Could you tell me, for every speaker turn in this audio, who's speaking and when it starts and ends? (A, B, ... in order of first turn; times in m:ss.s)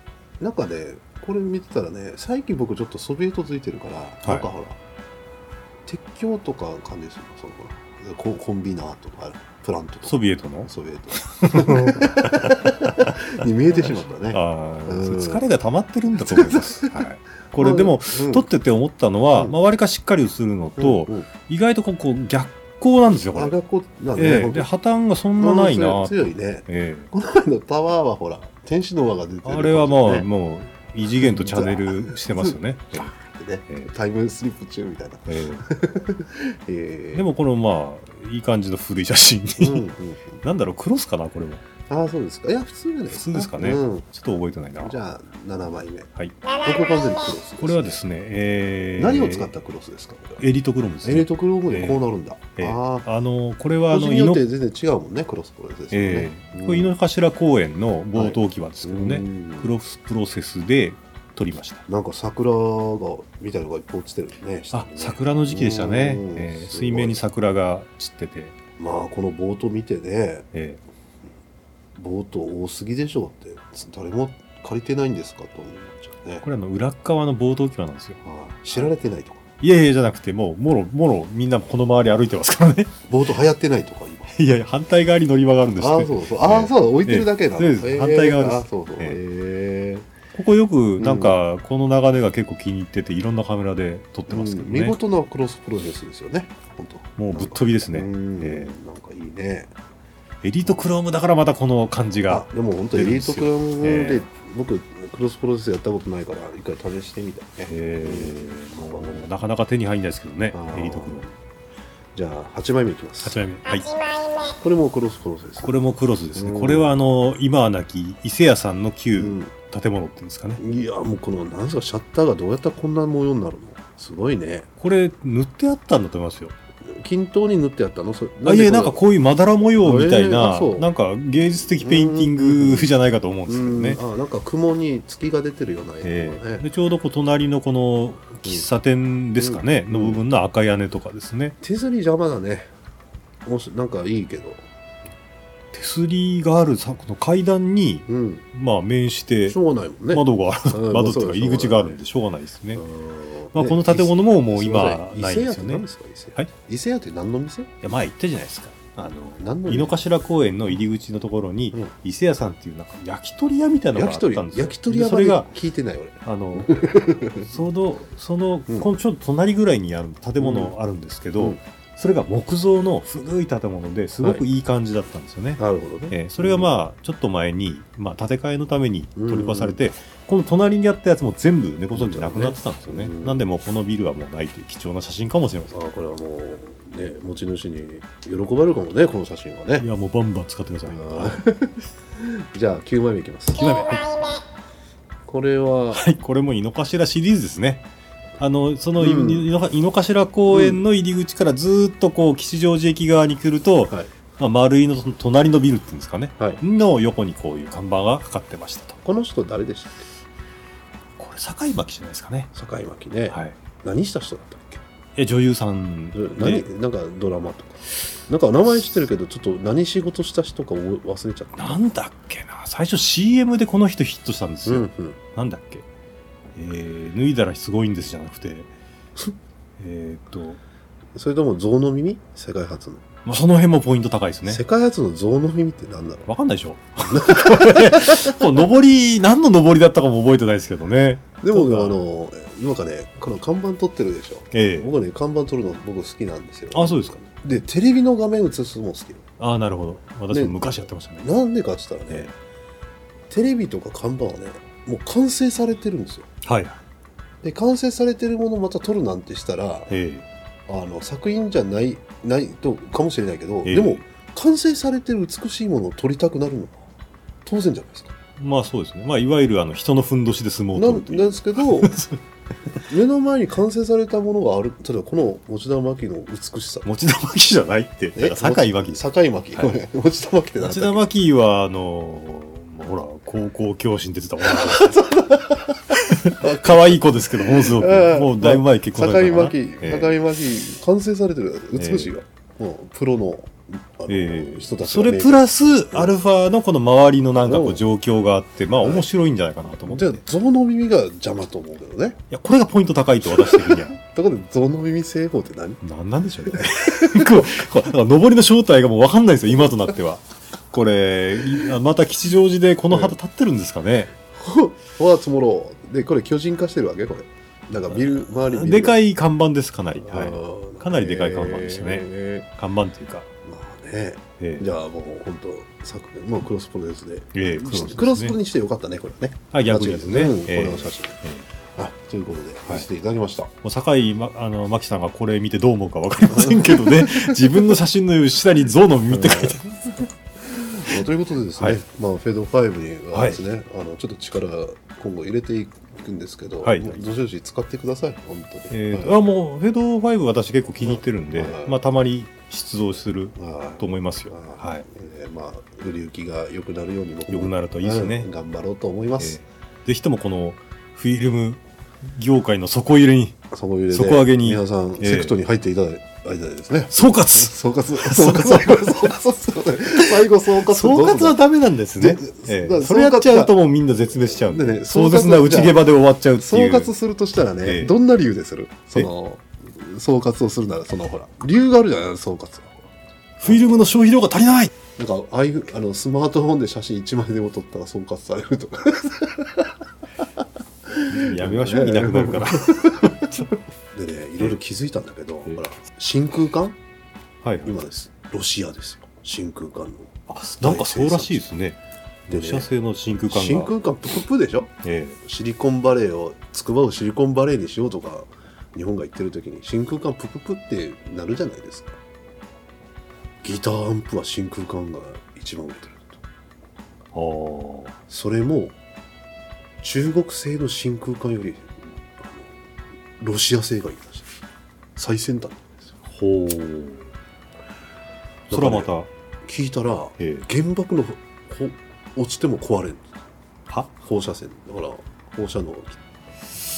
0:00.4-0:04.8 A
0:05.9-0:15.4 A
0:10.1-0:10.7 B
0:11.2-0:23.6 B
0:16.2-0:17.0 A
0:17.6-0:18.5 A
0:20.8-0:21.3 A
0:23.4-0:24.7 A
0:24.2-0:27.1 B
0:25.4-0:30.3 A
0:29.4-0:33.1 B
0:31.2-0:37.3 A
0:35.3-0:35.6 B
0:37.1-0:39.9 B
0:39.6-0:40.4 A
0:40.4-0:41.6 B
0:41.9-0:44.1 A
0:43.1-0:45.0 B
0:44.8-0:48.0 A
0:47.6-0:49.5 B
0:49.0-0:50.4 A
0:50.4-0:52.0 B
0:51.0-0:53.1 A
0:52.6-0:54.4 B
0:53.9-0:57.0 A
0:55.9-1:01.8 B
0:58.2-0:59.7 A
1:01.9-1:07.2 A
1:04.7-1:08.6 B
1:08.8-1:10.5 A
1:10.5-1:10.8 B
1:12.0-1:16.5 A
1:16.4-1:18.2 B
1:18.2-1:19.4 A
1:19.6-1:22.9 B
1:23.1-1:24.4 A
1:24.3-1:29.2 B
1:25.8-1:30.1 A
1:30.3-1:35.0 B
1:31.0-1:31.4 A
1:34.3-1:39.7 A
1:37.2-1:38.7 B
1:40.4-1:44.3 B
1:42.3-1:49.3 A
1:47.7-1:51.3 B
1:50.5-1:51.3 A
1:52.2-1:53.4 A
1:53.2-1:54.0 B
1:54.4-1:55.8 A
1:55.6-2:00.6 B
1:56.4-1:57.0 A
1:59.2-1:59.5 A
2:00.6-2:04.7 A
2:04.8-2:06.5 B
2:06.9-2:09.0 A
2:08.4-2:14.0 B
2:09.8-2:10.9 A
2:11.8-2:12.9 A
2:13.5-2:16.6 A
2:16.0-2:21.6 B
2:19.4-2:20.2 A
2:21.6-2:22.7 A
2:23.5-2:24.6 A
2:25.7-2:29.6 B
2:28.1-2:28.4 A
2:29.5-2:32.0 A
2:30.1-2:32.8 B
2:32.8-2:37.8 A
2:33.5-2:36.5 B
2:37.8-2:45.5 B
2:39.3-2:40.0 A
2:43.9-2:47.5 A
2:46.2-3:05.8 B
2:50.4-2:50.7 A
2:55.6-2:56.7 A
2:59.2-2:59.8 A
3:01.9-3:03.4 A
3:05.7-3:09.9 A
3:09.8-3:11.4 B
3:10.9-3:13.7 A
3:13.6-3:14.4 B
3:15.3-3:16.0 A
3:15.9-3:17.8 B
3:18.4-3:29.0 B
3:19.0-3:19.4 A
3:20.5-3:20.8 A
3:29.0-3:30.1 A
3:31.2-3:32.5 B
3:32.5-3:34.8 A
3:33.3-3:33.6 B
3:35.2-3:36.7 B
3:36.1-3:41.8 A
3:41.6-3:45.9 B
3:44.7-3:45.2 A
3:46.6-3:48.7 B
3:49.8-3:50.6 B
3:51.2-3:53.0 A
3:53.2-3:54.6 B
3:54.5-3:56.3 A
3:56.3-4:02.0 B
3:57.1-3:58.4 A
4:01.4-4:09.2 A
4:04.5-4:04.9 B
4:06.7-4:07.2 B
4:09.4-4:11.3 B
4:10.3-4:12.3 A
4:13.3-4:16.3 A
4:16.4-4:16.8 B
4:17.4-4:19.9 A
4:19.9-4:20.2 B
4:20.7-4:26.8 A
4:23.6-4:24.0 B
4:27.4-4:28.1 A
4:28.4-4:32.2 B
4:30.8-4:31.9 A
4:32.8-4:36.9 A
4:36.8-4:39.8 B
4:38.2-4:41.0 A
4:40.6-4:45.1 B
4:44.4-4:45.7 A
4:45.9-4:50.2 B
4:46.4-4:55.4 A
4:51.8-4:52.1 B
4:54.1-5:00.2 B
4:57.4-4:57.8 A
4:58.8-4:59.1 A
4:59.9-5:02.2 A
5:02.3-5:04.0 B
5:03.4-5:05.8 A
5:05.8-5:14.1 B
5:12.9-5:13.2 A
5:14.3-5:19.0 A
5:17.9-5:23.3 B
5:20.0-5:22.5 A
5:23.4-5:31.2 A
5:24.4-5:24.7 B
5:27.3-5:28.4 B
5:29.5-5:31.5 B
5:31.8-5:33.5 A
5:33.6-5:40.1 B
5:36.3-5:37.6 A
5:39.1-5:39.6 A
5:40.4-5:49.2 A
5:43.1-5:43.4 B
5:46.6-5:47.0 B
5:48.7-5:54.9 B
5:50.8-5:51.8 A
5:53.4-5:59.4 A
5:57.3-5:58.3 B
5:59.2-6:03.4 B
6:03.5-6:11.4 A
6:03.9-6:05.4 B
6:06.9-6:09.1 B
6:10.0-6:18.0 B
6:12.0-6:13.5 A
6:14.4-6:15.9 A
6:16.4-6:22.9 A
6:23.4-6:24.7 B
6:25.0-6:29.7 A
6:30.9-6:33.4 A
6:31.1-6:33.4 B
6:33.9-6:36.8 A
6:37.4-6:37.8 B
6:37.6-6:41.4 A
6:40.3-6:43.7 B
6:42.3-6:42.7 A
6:43.3-6:52.0 A
6:44.8-6:45.2 B
6:53.4-6:56.2 A
6:57.1-6:58.0 B
6:58.1-6:58.8 A
6:59.8-7:02.5 A
7:03.2-7:04.4 A
7:05.0-7:05.9 A
7:06.1-7:07.1 B
7:08.5-7:08.9 A
7:08.5-7:09.1 B
7:09.4-7:13.2 A
7:10.2-7:10.5 B
7:14.0-7:16.0 A